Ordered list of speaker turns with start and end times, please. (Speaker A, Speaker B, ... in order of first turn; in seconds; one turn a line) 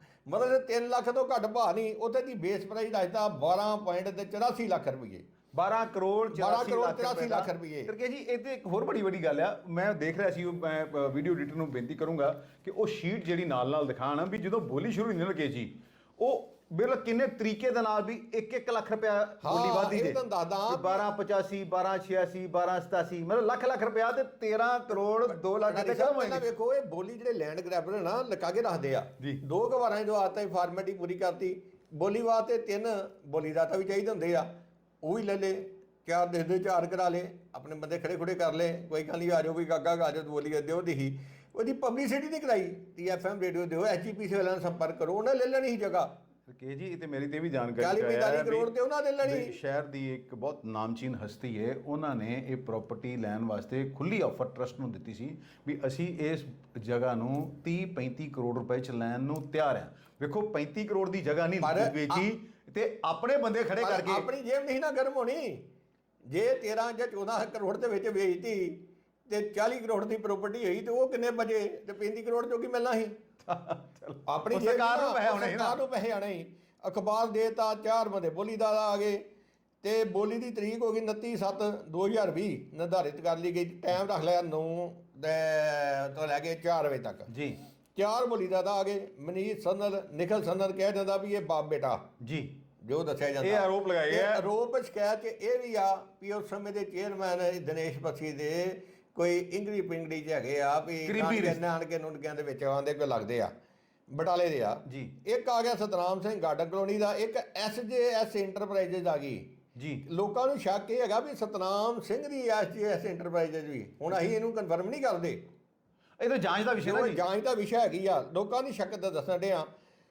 Speaker A: 0.2-5.3
Speaker B: 5.5-26.4
Speaker A: 6.3-7.9
Speaker A: 19.4-21.0
Speaker A: 25.6-46.1
Speaker B: 46.5-64.3
Speaker A: 47.8-49.6
Speaker A: 61.6-62.2
Speaker A: 63.8-65.7
Speaker A: 66.3-73.2
Speaker B: 73.5-75.8
Speaker A: 74.2-79.3
Speaker A: 79.8-87.3
Speaker B: 87.3-87.6
Speaker A: 87.9-92.0
Speaker B: 92.2-92.6
Speaker A: 92.8-103.5
Speaker B: 93.4-94.4
Speaker B: 101.0-101.6
Speaker A: 104.1-109.5
Speaker B: 104.8-105.1
Speaker B: 109.7-110.0
Speaker A: 110.0-115.5
Speaker B: 116.2-117.2
Speaker A: 116.8-119.7